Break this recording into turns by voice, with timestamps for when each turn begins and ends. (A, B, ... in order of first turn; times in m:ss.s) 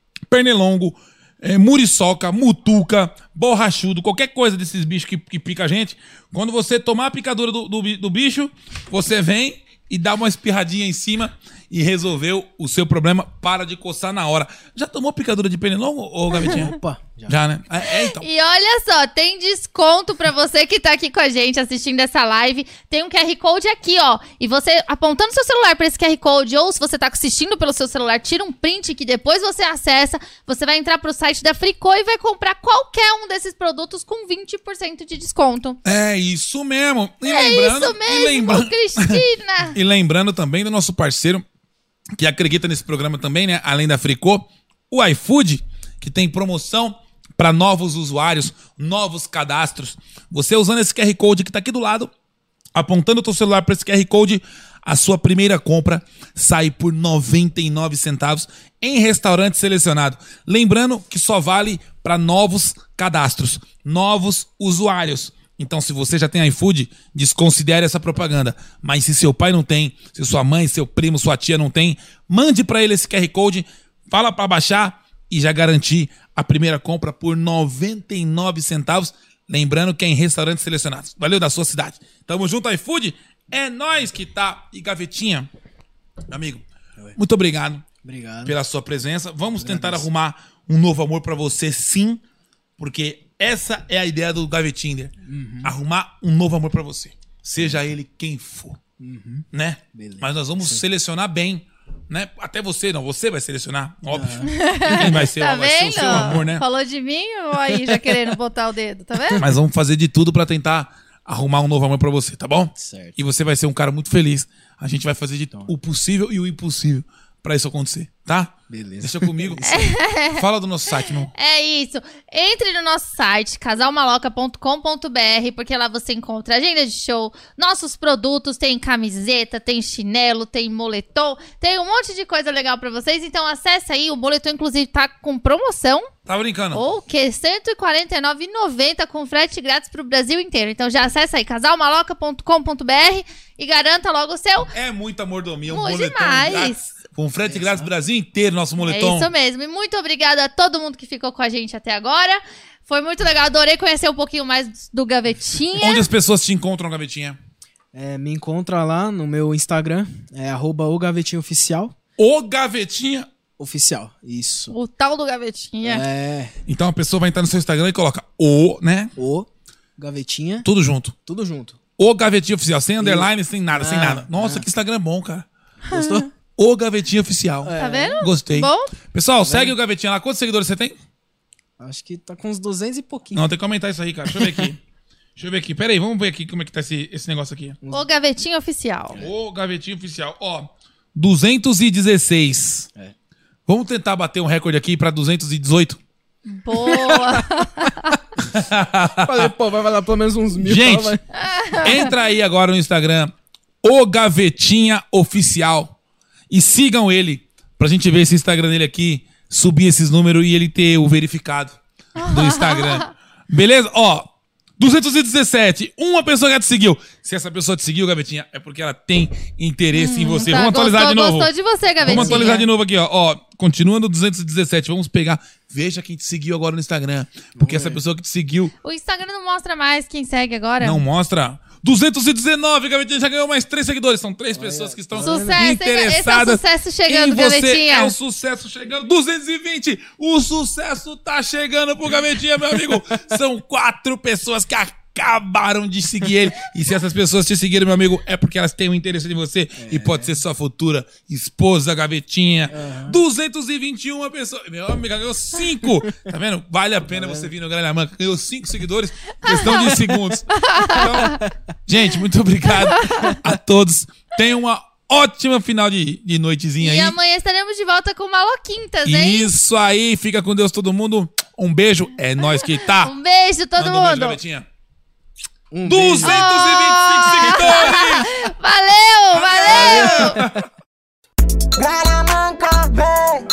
0:00.3-0:16.7 A
0:16.3-0:17.4 B
0:17.3-0:18.3 A
0:18.1-0:35.8 C
0:35.8-0:41.4 A
0:37.2-0:39.7 C
0:42.2-0:52.1 A
0:52.7-1:25.5 A
1:26.3-1:27.9 A
1:28.0-1:28.6 B
1:28.4-1:32.2 A
1:29.5-1:30.1 B
1:32.8-1:38.8 A
1:35.2-1:35.7 B
1:37.6-1:37.8 B
1:39.0-1:40.8 B
1:39.5-1:46.6 A
1:44.1-1:45.3 B
1:44.5-1:49.4 C
1:46.0-1:46.4 B
1:47.6-1:48.3 B
1:49.4-1:59.7 A
1:52.8-1:53.2 B
1:58.7-1:59.9 B
1:59.6-2:00.4 C
2:00.4-2:01.3 A
2:01.3-2:16.1 C
2:16.2-2:16.8 A
2:16.7-2:24.7 C
2:24.7-2:29.3 A
2:25.7-2:26.9 C
2:27.4-2:27.9 B
2:28.8-2:36.0 C
2:35.8-2:37.4 A
2:37.9-2:41.9 B
2:42.2-2:43.3 A
2:43.6-2:44.7 B
2:44.7-2:46.0 C
2:45.8-2:46.5 B
2:46.7-2:49.1 A
2:49.2-2:50.7 B
2:50.6-2:51.1 A
2:51.2-2:51.8 B
2:52.0-2:55.5 A
2:53.0-2:54.7 B
2:55.9-2:56.3 B
2:55.9-2:56.2 C
2:56.6-3:01.0 A
2:57.6-2:58.2 B
2:57.8-2:58.9 C
2:59.4-2:59.7 B
3:01.8-3:03.5 B
3:03.3-3:04.8 A
3:04.2-3:04.7 B
3:05.4-3:07.8 A
3:07.9-3:09.2 C
3:09.2-3:12.9 A
3:13.7-3:16.0 A
3:16.4-3:18.2 C
3:16.8-3:17.4 B
3:18.4-3:19.5 A
3:19.1-3:21.2 B
3:20.6-3:21.2 A
3:21.5-3:21.9 C
3:21.8-3:23.3 A
3:23.8-3:25.9 A
3:26.5-3:41.5 A
3:32.2-3:33.1 C
3:39.9-3:42.6 C
3:42.0-3:42.5 B
3:42.0-3:48.7 A
3:47.6-3:48.0 B
3:48.8-3:51.0 C
3:50.8-4:27.2 A
3:54.5-3:55.7 B
3:55.2-3:58.2 C
4:09.8-4:10.3 B
4:12.7-4:13.2 B
4:17.1-4:17.5 B
4:19.4-4:19.9 C
4:20.5-4:21.4 C
4:20.9-4:21.5 B
4:26.8-4:29.5 C
4:29.0-4:33.1 A
4:32.8-4:34.4 C
4:33.8-4:34.6 A
4:35.7-4:36.5 B
4:35.9-4:38.3 A
4:36.2-4:40.4 C
4:39.3-4:40.6 A
4:39.7-4:40.6 B